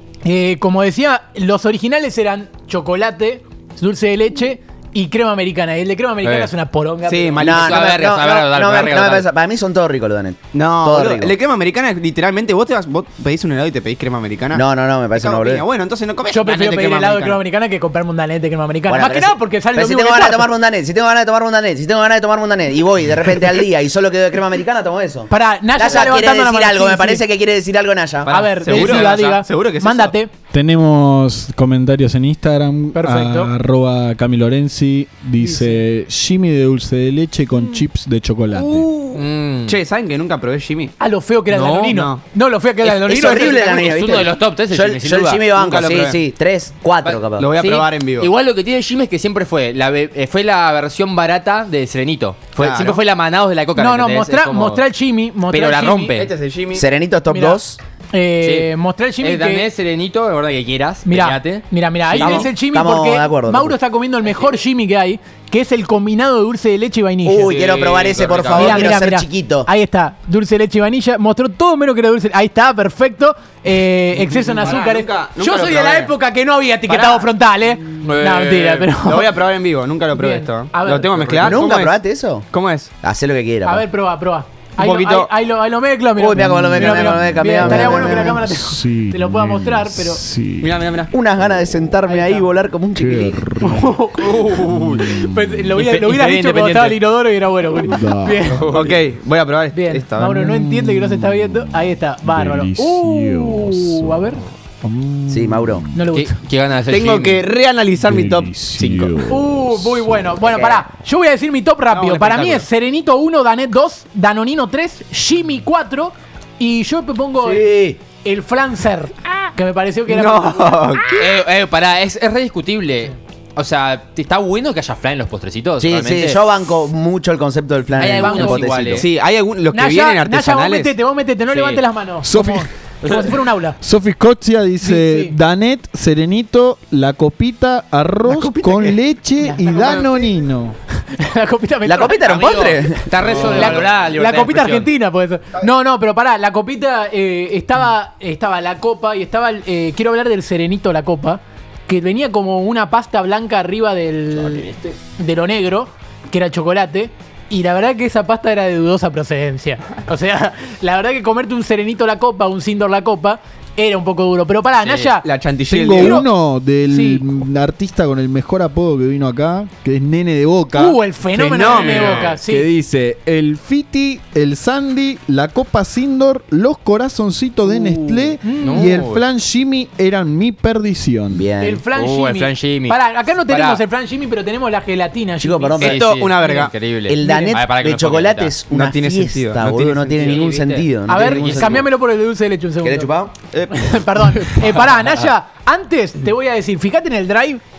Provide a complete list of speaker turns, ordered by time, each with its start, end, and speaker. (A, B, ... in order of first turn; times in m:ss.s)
0:00.2-0:07.7 A
0:06.2-0:06.5 B
0:07.0-0:07.9 C
0:07.4-0:11.4 D
0:07.5-0:09.3 B
0:10.5-0:17.4 C
0:14.5-0:15.7 D
0:16.3-0:20.5 A
0:18.9-0:28.6 D
0:25.3-0:27.2 A
0:28.2-0:30.1 C
0:28.2-0:30.3 A
0:28.7-0:29.2 B
0:30.5-0:38.9 E
0:32.9-0:33.5 A
0:35.4-0:35.8 A
0:38.5-0:40.9 C
0:39.1-0:39.8 B
0:41.0-0:43.9 A
0:41.5-0:42.1 B
0:41.9-0:42.2 C
0:43.0-0:47.5 D
0:43.6-0:45.5 B
0:45.5-0:46.2 C
0:47.0-0:48.3 C
0:47.1-0:54.8 B
0:52.6-0:53.0 C
0:53.8-0:56.1 A
0:55.5-0:56.3 B
0:56.1-0:56.9 C
0:56.7-0:57.8 D
0:57.3-0:59.7 A
0:58.4-1:02.5 B
1:01.0-1:07.5 A
1:02.1-1:03.7 D
1:07.2-1:09.7 D
1:07.4-1:09.0 B
1:08.5-1:19.4 A
1:14.2-1:16.1 C
1:16.9-1:17.3 C
1:18.0-1:18.6 B
1:18.1-1:22.9 C
1:20.1-1:21.4 A
1:21.3-1:22.5 D
1:23.0-1:23.8 D
1:23.6-1:30.2 A
1:24.8-1:25.3 C
1:26.2-1:28.4 D
1:26.4-1:30.8 E
1:30.6-1:31.1 C
1:31.1-1:33.4 D
1:32.0-1:32.5 A
1:32.9-1:35.7 E
1:33.6-1:34.4 A
1:34.4-1:34.9 C
1:35.1-1:38.7 A
1:35.8-1:36.8 B
1:36.1-1:36.9 C
1:37.8-1:38.4 E
1:38.5-1:39.0 B
1:38.7-1:40.4 C
1:39.7-1:44.4 A
1:40.2-1:46.0 E
1:45.3-1:45.8 D
1:45.9-1:46.3 A
1:46.1-1:47.4 B
1:46.9-1:49.2 C
1:48.0-1:50.3 E
1:49.3-2:00.8 A
1:50.4-1:50.8 D
1:51.9-1:52.6 C
1:57.4-1:58.0 D
2:00.1-2:01.2 C
2:01.1-2:06.4 B
2:05.8-2:09.0 D
2:08.0-2:09.1 B
2:08.2-2:08.7 A
2:08.9-2:10.9 C
2:09.7-2:13.8 A
2:11.5-2:11.8 B
2:12.2-2:12.7 E
2:13.8-2:20.8 E
2:14.8-2:15.3 A
2:18.2-2:19.0 C
2:19.4-2:20.2 A
2:21.1-2:45.2 A
2:21.8-2:23.8 D
2:22.3-2:24.9 B
2:44.8-2:45.1 B
2:45.2-2:46.2 C
2:45.7-2:51.0 E
2:45.9-2:46.2 A
2:46.9-2:47.2 A
2:50.7-2:52.7 A
2:51.3-2:52.2 C
2:51.7-2:52.3 B
2:52.3-3:01.4 E
2:58.4-2:59.0 A
2:58.6-2:59.2 B
3:01.3-3:01.8 D
3:01.6-3:05.8 A
3:01.9-3:03.8 B
3:05.4-3:06.0 D
3:05.8-3:06.7 C
3:05.8-3:08.6 B
3:07.0-3:11.8 D
3:08.7-3:10.4 C
3:10.1-3:11.8 B
3:11.1-3:13.1 A
3:12.8-3:13.3 D
3:13.4-3:13.7 C
3:13.7-3:17.6 A